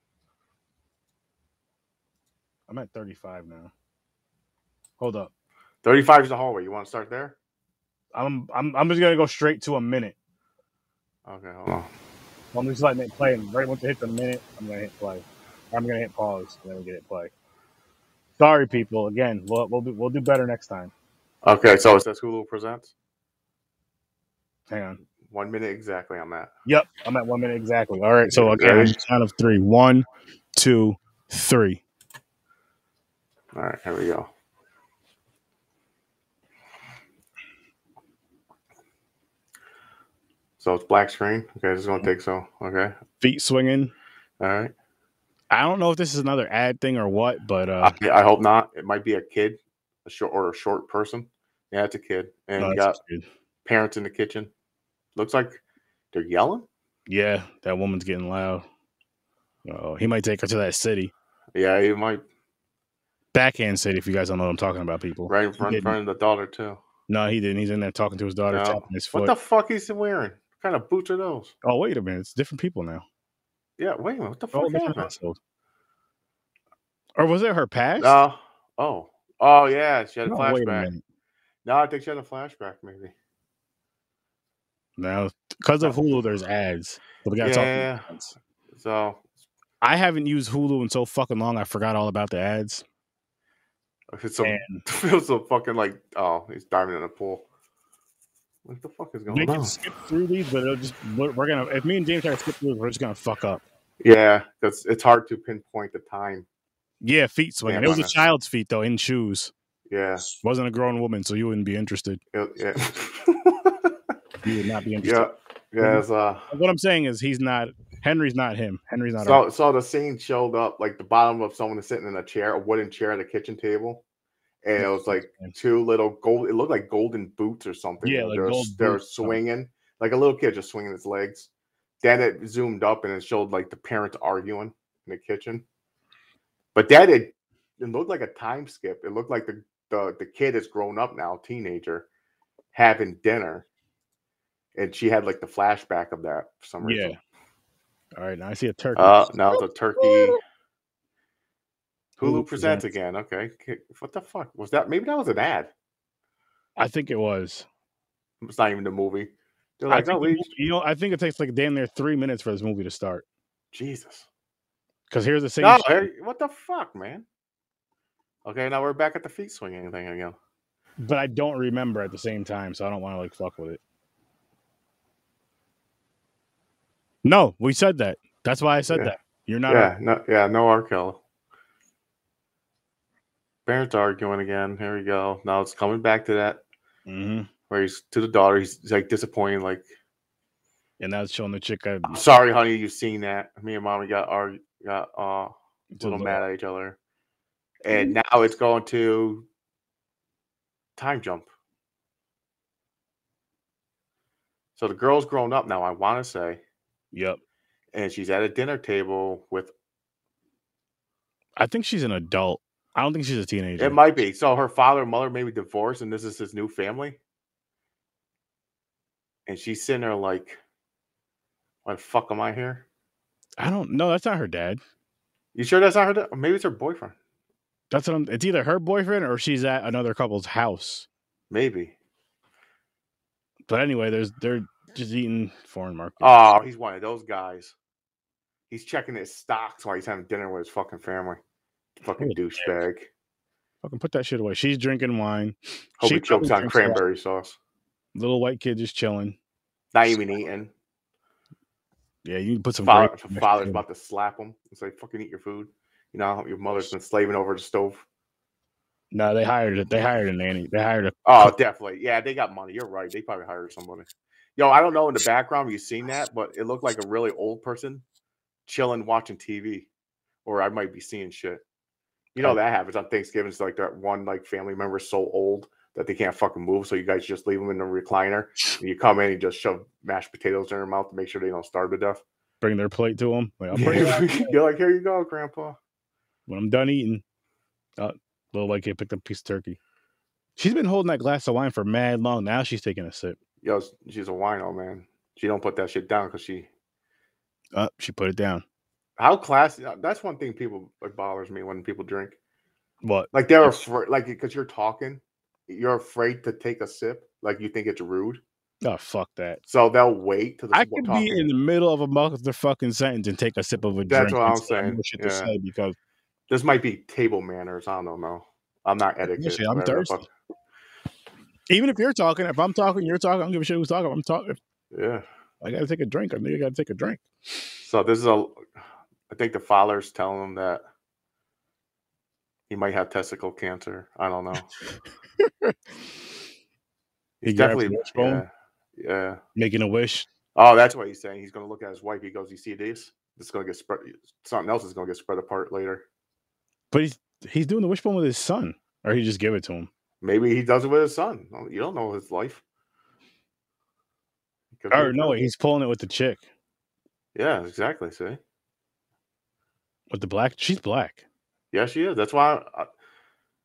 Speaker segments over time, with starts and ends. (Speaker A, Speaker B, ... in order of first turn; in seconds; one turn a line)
Speaker A: 2.7-3.7
Speaker A: 5.0-5.3
Speaker B: 5.8-7.3
Speaker A: 8.1-10.1
Speaker B: 11.2-11.9
Speaker A: 12.5-17.3
Speaker A: 18.4-20.9
Speaker B: 21.4-22.9
Speaker A: 24.7-25.0
Speaker B: 25.2-26.5
Speaker A: 26.6-30.0
Speaker B: 28.3-29.0
Speaker A: 30.6-31.8
Speaker B: 33.5-34.3
Speaker B: 40.6-42.9
Speaker A: 43.2-43.9
Speaker B: 44.4-44.7
Speaker A: 45.5-48.0
Speaker B: 47.8-53.0
Speaker A: 52.6-53.2
Speaker B: 53.6-54.5
Speaker B: 55.1-56.7
Speaker A: 57.1-58.6
Speaker A: 59.6-61.1
Speaker B: 61.5-62.2
Speaker A: 63.3-66.0
Speaker B: 65.3-66.8
Speaker A: 67.1-69.3
Speaker B: 68.5-71.5
Speaker A: 71.6-73.0
Speaker B: 73.8-75.1
Speaker A: 74.5-75.4
Speaker A: 77.2-78.2
Speaker B: 78.0-80.9
Speaker A: 80.2-81.0
Speaker B: 81.6-83.1
Speaker A: 85.0-88.3
Speaker B: 87.4-88.1
Speaker B: 88.7-89.2
Speaker A: 89.8-92.8
Speaker B: 94.1-97.5
Speaker A: 94.4-94.8
Speaker B: 98.6-99.8
Speaker A: 99.3-103.6
Speaker B: 104.0-106.5
Speaker A: 107.0-109.5
Speaker B: 107.7-108.1
Speaker B: 109.9-110.2
Speaker A: 110.4-112.2
Speaker B: 112.3-114.0
Speaker A: 114.4-115.3
Speaker B: 115.0-116.5
Speaker A: 115.8-119.4
Speaker B: 119.2-124.0
Speaker B: 124.6-131.5
Speaker A: 124.8-125.5
Speaker A: 128.0-129.4
Speaker B: 132.0-135.6
Speaker B: 136.7-142.1
Speaker B: 142.7-143.7
Speaker B: 144.7-147.1
Speaker A: 146.8-147.2
Speaker A: 148.2-150.4
Speaker B: 148.9-150.4
Speaker B: 152.2-155.7
Speaker A: 152.2-152.9
Speaker A: 156.8-157.7
Speaker B: 158.4-160.5
Speaker A: 159.9-163.2
Speaker B: 163.7-164.3
Speaker A: 165.1-166.0
Speaker B: 165.6-167.2
Speaker B: 168.4-170.3
Speaker A: 171.0-173.8
Speaker A: 177.2-179.9
Speaker B: 179.7-181.2
Speaker B: 183.7-186.6
Speaker A: 187.1-187.5
Speaker B: 187.7-189.8
Speaker A: 191.0-192.2
Speaker B: 192.1-197.0
Speaker A: 195.9-196.4
Speaker B: 197.8-199.5
Speaker B: 200.9-201.5
Speaker B: 204.8-206.6
Speaker A: 207.1-207.4
Speaker B: 207.9-209.7
Speaker A: 211.6-214.0
Speaker B: 213.8-217.2
Speaker B: 219.5-220.6
Speaker B: 221.8-222.8
Speaker A: 223.6-224.8
Speaker B: 225.5-227.1
Speaker A: 227.9-231.1
Speaker B: 231.5-231.9
Speaker A: 233.7-236.3
Speaker B: 236.2-237.7
Speaker B: 238.7-241.4
Speaker B: 242.0-243.1
Speaker A: 243.8-247.0
Speaker B: 246.0-247.6
Speaker A: 248.1-249.4
Speaker B: 249.9-250.7
Speaker A: 252.2-253.8
Speaker B: 252.8-258.1
Speaker A: 259.1-261.5
Speaker B: 261.2-268.0
Speaker B: 268.6-269.9
Speaker B: 270.4-271.6
Speaker B: 272.3-282.2
Speaker A: 282.6-284.5
Speaker B: 283.7-285.8
Speaker A: 286.5-287.2
Speaker A: 288.0-289.8
Speaker A: 290.6-293.4
Speaker B: 293.6-296.7
Speaker A: 297.7-298.6
Speaker B: 299.2-302.4
Speaker A: 303.0-303.9
Speaker B: 303.3-308.4
Speaker A: 308.8-309.6
Speaker B: 309.6-311.5
Speaker A: 310.7-315.9
Speaker B: 314.1-315.5
Speaker B: 316.5-320.3
Speaker A: 319.3-320.2
Speaker A: 321.7-324.6
Speaker B: 324.9-325.2
Speaker A: 325.6-327.2
Speaker B: 327.8-328.6
Speaker B: 329.3-330.8
Speaker B: 332.7-334.7
Speaker A: 335.4-335.7
Speaker B: 337.4-339.4
Speaker A: 337.4-338.4
Speaker A: 339.6-340.3
Speaker B: 340.5-346.0
Speaker A: 346.9-349.9
Speaker B: 350.2-352.6
Speaker B: 354.7-355.4
Speaker A: 354.9-356.4
Speaker B: 357.3-358.4
Speaker A: 360.1-361.2
Speaker B: 361.7-362.9